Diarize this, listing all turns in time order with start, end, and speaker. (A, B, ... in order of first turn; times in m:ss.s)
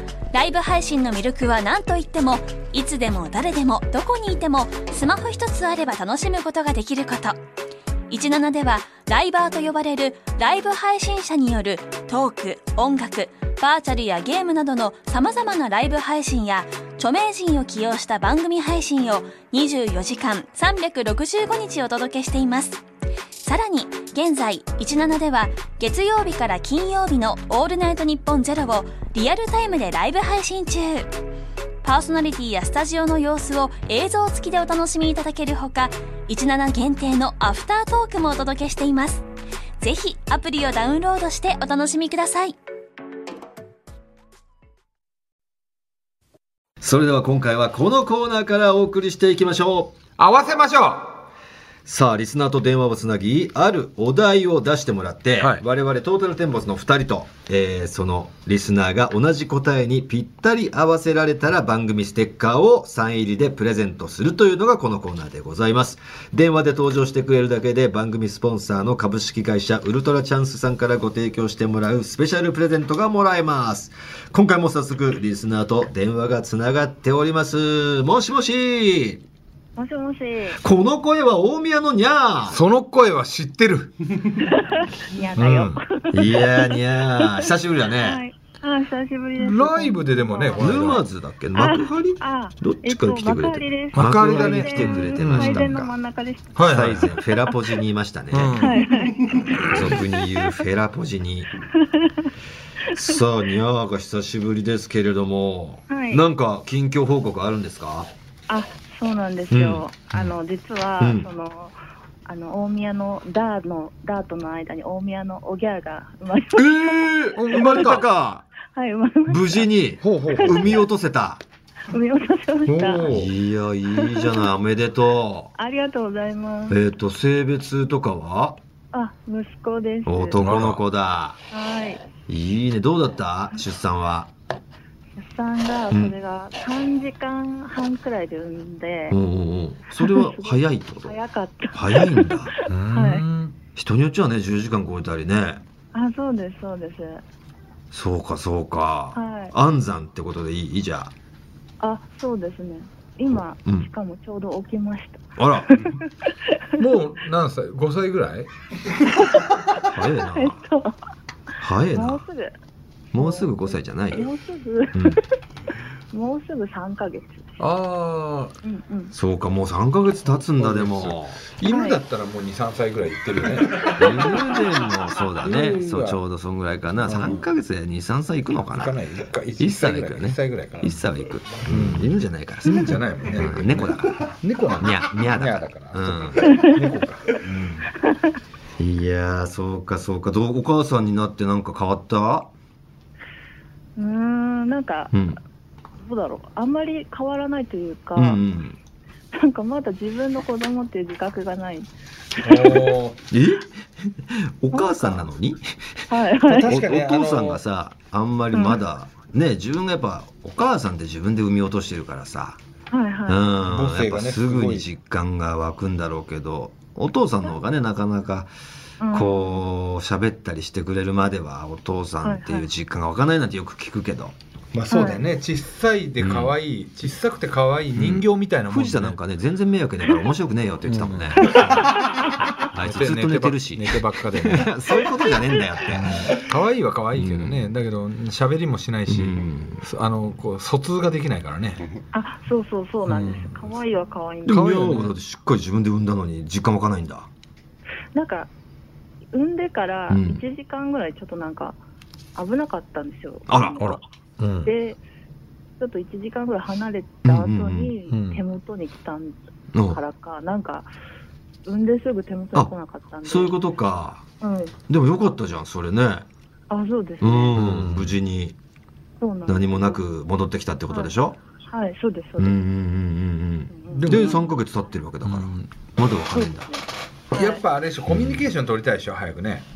0:00.3-0:07.4 A
0:08.1-0:22.8 A
0:23.4-0:31.1 A
0:31.8-0:39.2 A
0:39.8-0:42.6 A
0:46.8-0:50.0 B
0:50.2-0:51.2 C
0:51.8-1:19.2 B
0:55.4-0:55.6 C
1:19.8-1:20.6 D
1:20.6-1:22.6 B
1:22.5-1:24.4 C
1:24.4-1:30.6 D
1:25.4-1:25.8 C
1:26.1-1:28.2 B
1:29.4-1:31.0 C
1:30.6-1:35.9 B
1:31.6-1:36.6 D
1:33.9-1:35.7 C
1:36.6-1:37.1 C
1:36.6-1:38.6 B
1:38.3-1:38.8 C
1:38.6-1:39.3 D
1:39.4-1:40.0 C
1:39.6-1:41.5 B
1:41.8-1:42.3 D
1:42.9-1:48.1 B
1:45.9-1:46.2 D
1:48.5-1:51.7 D
1:49.5-1:50.3 B
1:51.0-1:51.3 B
1:52.2-1:57.9 D
1:56.5-1:58.4 B
1:57.3-1:58.0 C
1:58.7-1:59.7 D
1:59.2-2:01.4 B
2:00.0-2:00.8 C
2:01.9-2:03.1 D
2:02.6-2:03.3 C
2:03.1-2:05.5 B
2:03.9-2:04.5 D
2:05.6-2:06.8 D
2:06.7-2:08.6 B
2:08.9-2:10.4 D
2:10.0-2:11.4 B
2:10.4-2:10.8 C
2:11.5-2:12.0 D
2:12.3-2:14.3 B
2:15.2-2:19.2 D
2:15.9-2:16.2 B
2:19.1-2:21.2 B
2:19.9-2:23.2 D
2:21.7-2:22.5 B
2:22.7-2:23.6 C
2:23.8-2:25.6 B
2:25.9-2:27.2 D
2:27.9-2:31.1 B
2:29.1-2:29.5 D
2:31.8-2:36.5 D
2:35.4-2:35.9 B
2:36.8-2:38.5 C
2:39.8-2:40.6 B
2:40.3-2:41.0 D
2:41.6-2:42.2 B
2:41.9-2:42.5 D
2:43.1-2:44.2 B
2:43.1-2:45.2 D
2:44.9-2:45.2 B
2:46.1-2:47.6 D
2:47.6-2:48.5 C
2:48.6-2:49.1 D
2:49.1-2:51.4 B
2:50.3-2:54.4 C
2:51.7-2:52.0 D
2:53.9-2:59.0 B
2:55.4-2:56.2 C
2:57.0-2:57.4 C
2:58.6-3:01.1 C
2:59.6-3:06.6 B
3:01.6-3:02.1 C
3:02.6-3:07.9 C
3:08.8-3:12.5 B
3:14.0-3:15.1 D
3:15.1-3:15.4 B
3:16.0-3:18.4 D
3:18.1-3:18.8 B
3:19.3-3:21.9 D
3:22.4-3:23.2 C
3:23.3-3:26.0 B
3:26.1-3:26.8 D
3:26.4-3:27.6 C
3:26.7-3:32.6 B
3:28.5-3:28.8 D
3:32.9-3:33.4 D
3:33.3-3:38.5 B
3:33.6-3:34.8 C
3:39.0-3:39.6 D
3:39.1-3:44.3 B
3:42.2-3:42.7 D
3:44.7-3:49.2 C
3:44.9-3:45.2 D
3:46.2-3:46.5 B
3:47.9-3:51.5 B
3:50.8-3:52.0 C
3:52.7-3:56.2 B
3:52.8-3:54.7 C
3:55.9-4:01.9 C
3:57.1-3:57.7 B
3:59.1-3:59.8 B
4:02.1-4:04.9 D
4:03.0-4:03.7 C
4:04.4-4:07.3 B
4:04.5-4:05.1 C
4:08.1-4:08.5 D
4:09.3-4:11.8 D
4:10.1-4:10.4 B
4:12.3-4:14.0 D
4:13.5-4:14.0 B
4:13.8-4:14.7 C
4:14.6-4:15.0 D
4:15.8-4:20.9 D
4:17.2-4:17.9 B
4:18.1-4:18.4 C
4:19.7-4:20.0 B
4:21.6-4:23.6 D
4:23.2-4:24.2 B
4:24.4-4:24.7 D
4:24.9-4:26.3 B
4:26.7-4:27.6 D
4:27.2-4:28.6 B
4:27.5-4:28.1 C
4:29.2-4:30.0 D
4:29.5-4:31.4 B
4:31.7-4:32.6 D
4:32.4-4:36.7 B
4:33.7-4:34.4 D
4:33.9-4:34.4 C
4:35.2-4:35.7 C
4:36.3-4:37.6 D
4:37.3-4:39.6 C
4:38.1-4:38.5 B